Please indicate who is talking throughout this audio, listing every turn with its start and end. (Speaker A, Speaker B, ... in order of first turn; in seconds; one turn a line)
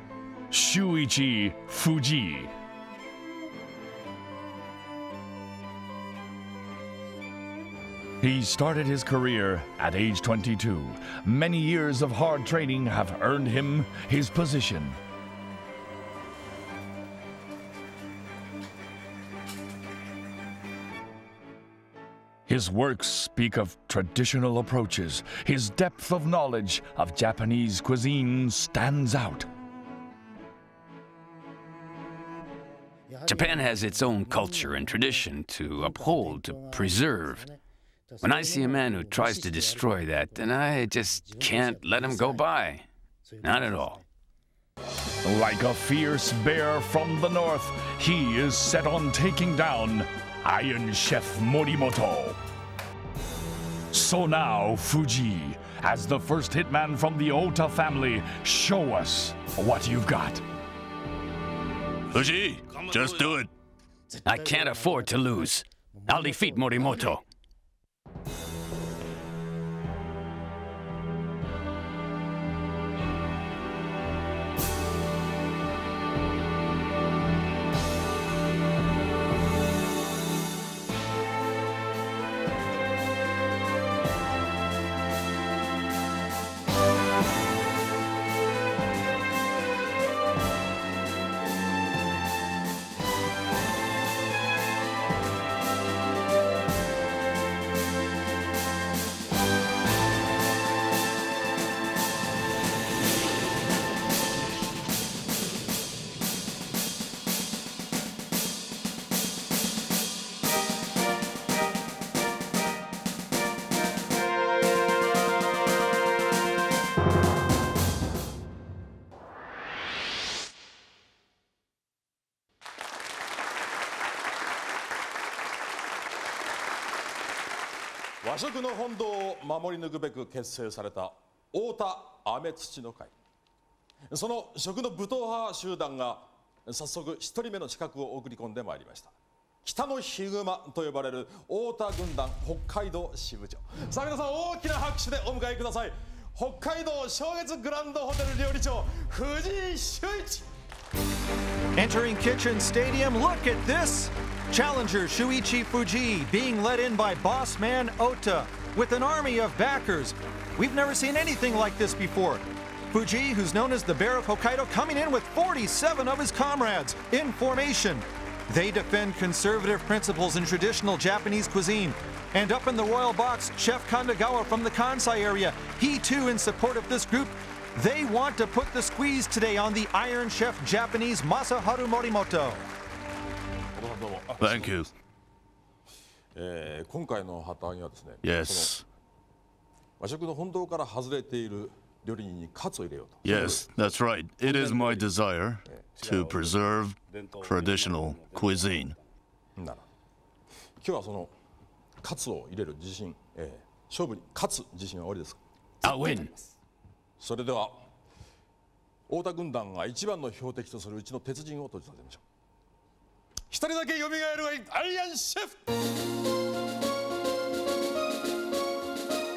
Speaker A: 0.5-2.5
Speaker A: 8.2-15.0
Speaker A: 22.5-29.5
Speaker B: 33.2-37.5
Speaker B: 38.2-42.9
Speaker B: 43.4-44.0
Speaker A: 45.2-52.4
Speaker A: 53.9-60.4
Speaker C: 62.1-63.5
Speaker B: 64.2-67.2
Speaker D: 128.2-133.1
Speaker D: 134.1-139.1
Speaker D: 139.6-150.4
Speaker E: 151.7-182.7
Speaker D: 183.8-184.7
Speaker C: 184.4-184.9
Speaker D: 186.3-188.7
Speaker C: 188.2-188.8
Speaker D: 190.0-193.8
Speaker C: 193.2-199.0
Speaker D: 194.4-195.1
Speaker D: 195.7-195.9
Speaker D: 199.6-199.8
Speaker D: 200.8-201.3
Speaker D: 202.0-205.9
Speaker B: 205.8-206.3
Speaker D: 207.2-207.8
Speaker D: 209.1-212.2
Speaker D: 213.5-215.6